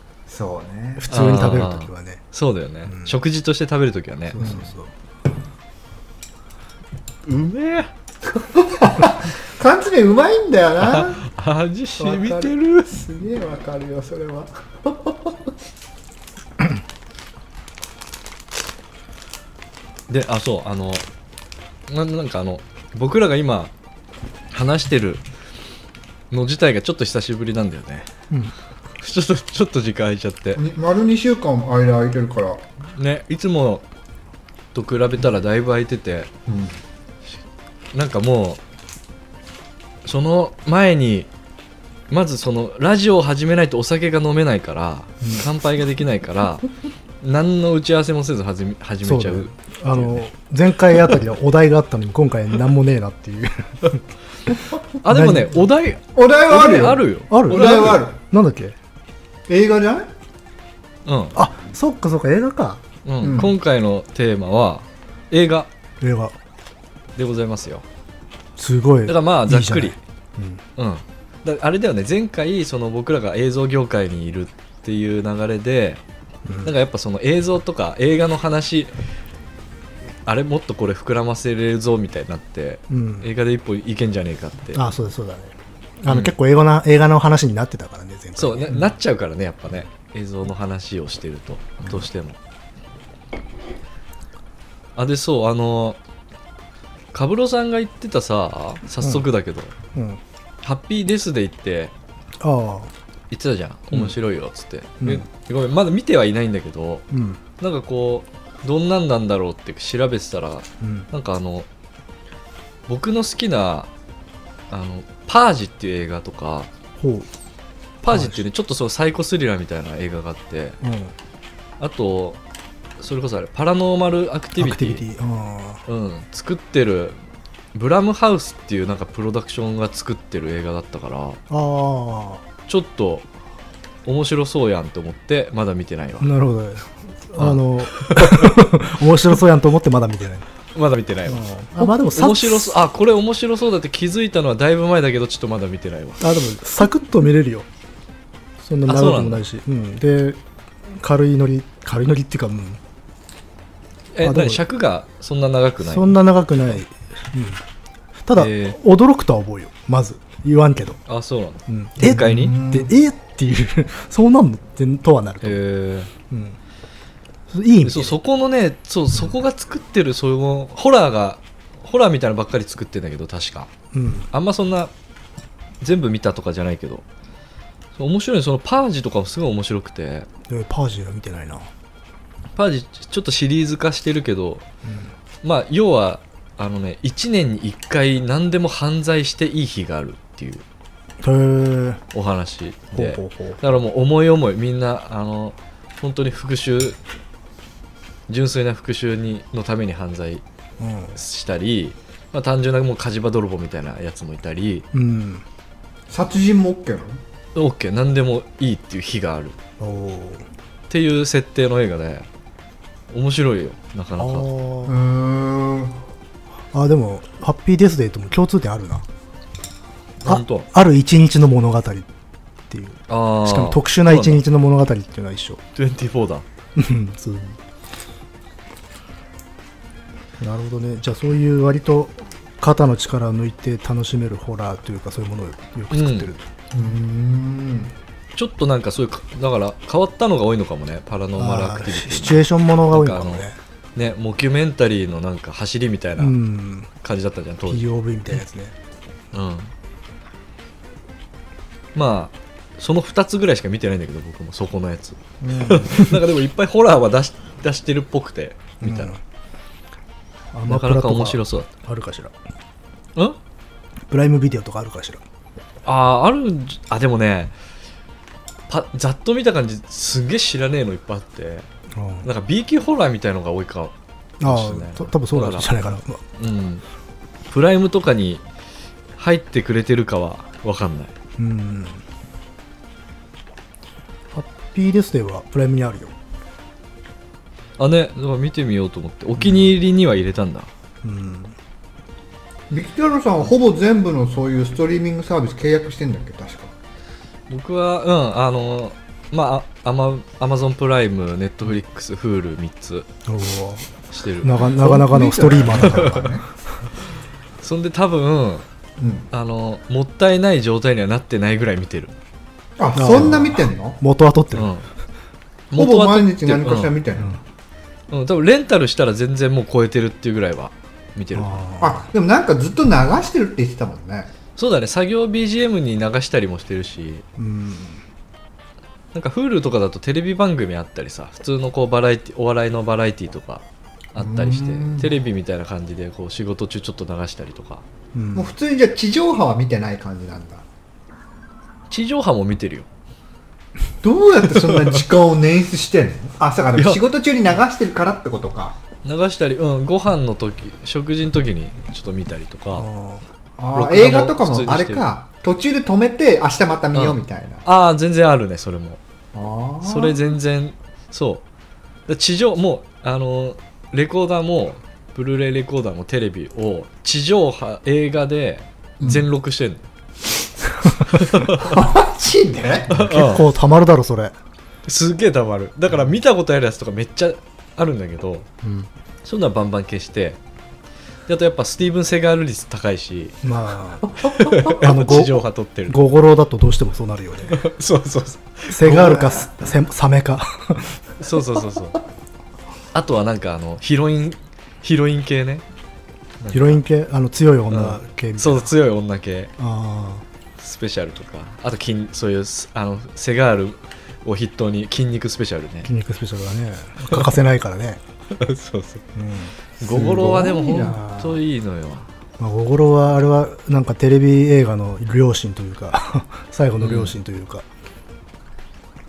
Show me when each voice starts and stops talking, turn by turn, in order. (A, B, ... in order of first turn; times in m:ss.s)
0:00.3-0:01.1 A
0:01.0-0:02.2 B
0:01.1-0:04.5 C
0:02.9-0:03.2 B
0:04.3-0:04.9 B
0:04.4-0:04.7 A
0:07.3-0:07.9 C
0:08.5-0:11.2 A
0:10.9-0:13.0 C
0:12.0-0:15.3 A
0:20.1-0:21.0 C
0:21.9-0:23.7 C
0:24.5-0:25.2 C
0:26.3-0:28.1 C
0:29.0-0:30.6 C
0:30.6-0:32.6 A
0:33.0-0:33.8 C
0:34.7-0:36.3 C
0:36.5-0:36.8 A
0:37.9-0:38.6 C
0:40.0-0:41.3 C
0:42.1-0:46.7 C
0:47.2-0:50.3 C
0:49.0-0:54.0 B
0:55.0-0:58.0 C
0:55.1-0:55.5 B
0:56.1-0:58.2 A
0:57.3-0:58.8 B
0:59.5-1:00.1 A
1:01.1-1:01.4 C
1:01.3-1:02.8 B
1:03.0-1:05.7 C
1:03.2-1:03.5 A
1:06.0-1:06.3 B
1:07.2-1:07.8 C
1:08.6-1:10.6 B
1:09.1-1:10.0 C
1:10.8-1:16.0 C
1:16.5-1:16.7 B
1:16.6-1:18.9 C
1:20.3-1:24.8 C
1:22.9-1:23.3 B
1:24.8-1:28.8 B
1:26.1-1:26.3 C
1:28.4-1:32.4 C
1:35.0-1:36.0 C
1:37.1-1:39.7 C
1:39.9-1:40.2 B
1:40.6-1:41.9 C
1:42.4-1:42.9 B
1:43.3-1:47.1 C
1:47.1-1:47.4 B
1:47.6-1:51.7 C
1:50.8-1:51.1 B
1:52.9-1:53.9 C
1:54.7-1:56.7 C
1:57.0-1:57.3 B
1:58.0-1:58.4 B
1:58.0-2:00.8 C
2:00.8-2:01.1 B
2:01.8-2:02.4 C
2:03.0-2:05.1 C
2:04.6-2:05.8 B
2:05.9-2:07.2 C
2:07.7-2:11.4 C
2:11.5-2:12.4 B
2:12.7-2:13.3 C
2:14.1-2:16.3 C
2:16.2-2:20.4 B
2:17.4-2:18.6 C
2:20.8-2:26.2 C
2:21.3-2:22.8 B
2:26.2-2:27.7 B
2:28.6-2:30.4 B
2:28.9-2:29.4 C
2:30.9-2:32.8 B
2:34.1-2:36.2 C
2:34.2-2:34.6 B
2:35.8-2:37.6 B
2:38.3-2:41.0 B
2:38.4-2:38.8 C
2:41.1-2:42.6 C
2:41.7-2:45.6 B
2:42.1-2:42.9 A
2:45.4-2:46.1 C
2:46.3-2:46.6 B
2:47.5-2:48.1 B
2:47.8-2:53.7 C
2:53.9-2:54.3 B
2:54.3-2:54.9 C
2:55.8-2:57.0 C
2:58.0-3:00.3 C
3:00.5-3:01.7 B
3:02.6-3:04.6 C
3:04.8-3:05.1 B
3:05.4-3:10.6 C
3:11.2-3:12.0 B
3:12.1-3:17.0 C
3:12.9-3:13.6 B
3:18.3-3:20.4 C
3:20.8-3:21.2 B
3:21.2-3:24.9 C
3:24.9-3:25.4 B
3:26.1-3:27.2 A
3:27.6-3:29.6 C
3:29.8-3:30.4 B
3:30.9-3:32.3 C
3:33.1-3:34.5 C
3:34.2-3:35.0 B
3:34.9-3:36.0 A
3:36.7-3:39.0 B
3:40.2-3:40.7 C
3:40.2-3:42.1 B
3:42.7-3:45.6 B
3:43.1-3:44.4 C
3:45.8-3:46.4 C
3:46.8-3:47.6 B
3:50.4-3:56.4 B
3:55.9-3:56.3 C
3:56.7-3:57.9 A
3:58.4-4:03.4 C
4:01.4-4:03.6 B
4:04.0-4:06.4 C
4:06.2-4:06.9 B
4:07.0-4:07.9 C
4:07.7-4:08.7 B
4:09.3-4:09.7 C
4:12.0-4:19.2 C
4:15.4-4:16.2 B
4:18.8-4:19.2 B
4:20.5-4:22.3 B
4:20.7-4:21.7 C
4:24.1-4:25.2 B
4:25.8-4:27.5 C
4:28.7-4:31.7 C
4:31.9-4:32.3 B
4:32.2-4:35.7 C
4:34.4-4:36.2 B
4:36.4-4:36.8 C
4:37.5-4:38.4 C
4:39.2-4:41.1 C
4:41.4-4:42.0 B
4:44.3-4:46.1 B
4:47.8-4:50.7 C
4:49.4-4:49.7 B
4:51.0-4:51.6 B
4:52.7-4:56.7 A
4:57.5-5:03.1 C
5:03.3-5:03.9 B
5:04.1-5:04.6 C
5:04.4-5:06.3 B
5:04.7-5:06.5 A
5:07.6-5:08.6 C
5:09.0-5:09.3 A
5:09.3-5:12.1 C
5:12.8-5:14.0 A
5:12.9-5:14.7 B
5:14.6-5:14.9 C
5:15.7-5:16.9 C
5:15.8-5:17.4 A
5:18.1-5:21.6 C
5:21.3-5:22.0 B
5:21.8-5:24.3 A
5:24.6-5:27.2 C
5:27.4-5:28.0 B
5:29.1-5:33.6 C
5:34.1-5:37.8 C
5:34.2-5:35.1 A
5:38.1-5:38.5 B
5:38.3-5:40.6 A
5:41.9-5:42.9 C
5:44.0-5:48.8 A
5:44.6-5:45.0 C
5:46.8-5:47.0 C
5:49.0-5:52.9 C
5:52.7-5:53.2 B
5:53.6-5:57.6 A
5:53.7-5:55.0 C
5:56.9-5:59.0 C
5:59.3-6:00.3 A
5:59.8-6:01.4 C
6:02.1-6:09.8 C
6:11.0-6:11.8 C
6:11.6-6:13.0 A
6:12.9-6:13.5 C
6:12.9-6:14.3 B
6:14.9-6:18.5 C
6:18.6-6:18.9 B
6:19.2-6:20.4 C
6:21.3-6:23.4 C
6:23.4-6:27.6 B
6:24.2-6:26.0 C
6:27.5-6:29.2 C
6:28.7-6:31.0 B
6:28.8-6:29.5 A
6:31.2-6:32.0 C
6:32.9-6:35.6 C
6:36.4-6:36.8 C
6:36.5-6:38.7 B
6:37.7-6:39.5 C
6:39.6-6:40.2 B
6:40.6-6:45.9 C
6:45.9-6:48.0 B
6:48.3-6:49.0 C
6:49.2-6:50.1 B
6:49.8-6:52.1 C
6:49.8-6:51.4 A
6:52.4-6:57.6 B
6:56.8-6:57.2 C